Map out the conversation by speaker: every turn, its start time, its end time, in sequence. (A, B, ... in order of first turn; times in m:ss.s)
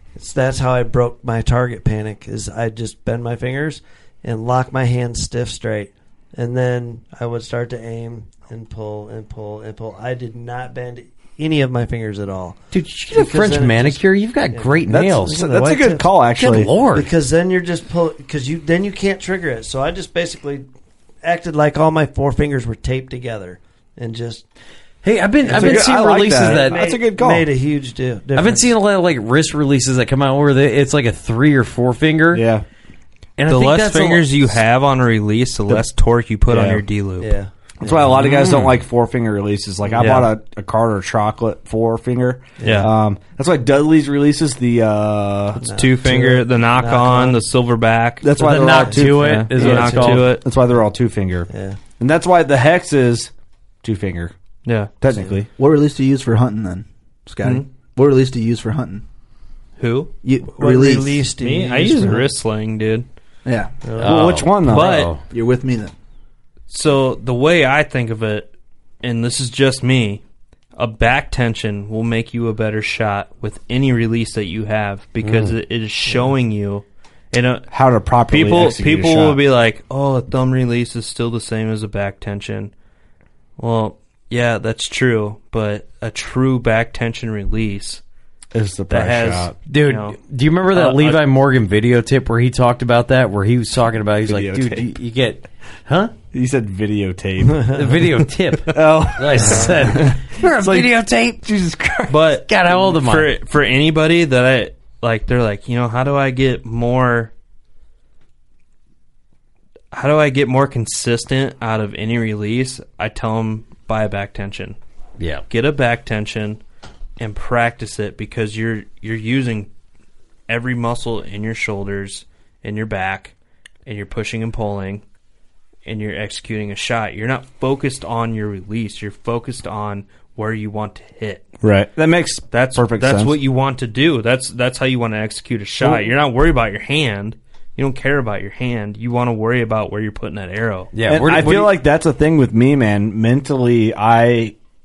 0:00.2-0:16.0 A
0:12.7-0:15.4 B
0:14.9-0:16.7 C
0:16.4-0:17.1 B
0:16.9-0:20.6 A
0:21.2-0:24.4 A
0:25.0-0:26.8 B
0:25.4-0:28.7 A
0:25.5-0:27.4 C
0:28.3-0:32.4 B
0:32.3-0:32.6 C
0:33.4-0:34.3 B
0:33.5-0:37.3 D
0:36.5-0:36.8 C
0:37.2-0:38.2 A
0:37.8-0:45.6 C
0:38.2-0:38.7 B
0:40.0-0:40.3 D
0:42.6-0:42.9 D
0:42.6-0:42.9 A
0:45.6-0:47.4 A
0:45.8-0:48.3 D
0:48.2-0:49.7 C
0:48.4-0:50.3 B
0:49.0-0:50.4 D
0:49.6-0:50.4 A
0:50.3-0:51.5 C
0:51.5-0:51.8 A
0:52.0-0:53.3 C
0:53.8-0:54.3 C
0:54.6-0:54.9 D
0:55.0-0:55.5 C
0:55.6-0:59.0 E
0:59.8-1:00.1 D
1:00.2-1:01.3 E
1:00.6-1:02.3 A
1:01.4-1:03.0 D
1:03.4-1:03.7 E
1:03.8-1:04.3 A
1:04.0-1:05.2 B
1:04.0-1:05.1 C
1:04.7-1:05.1 D
1:05.2-1:05.9 E
1:06.7-1:10.2 D
1:10.8-1:17.7 D
1:15.2-1:15.6 B
1:17.7-1:19.4 C
1:18.3-1:22.7 D
1:23.6-1:28.0 D
1:28.5-1:29.5 C
1:28.9-1:30.2 D
1:29.7-1:36.1 B
1:30.7-1:31.2 D
1:34.3-1:35.0 C
1:36.3-1:38.0 C
1:37.7-1:41.4 B
1:38.7-1:42.3 C
1:39.4-1:39.8 A
1:42.1-1:47.3 D
1:42.5-1:43.3 B
1:49.9-1:54.8 D
1:55.2-1:55.4 B
1:55.5-1:56.6 D
1:57.2-1:59.7 D
2:00.5-2:03.3 D
2:03.8-2:05.0 D
2:05.8-2:11.4 D
2:11.6-2:13.4 C
2:12.5-2:20.9 D
2:20.9-2:21.7 B
2:21.1-2:24.6 C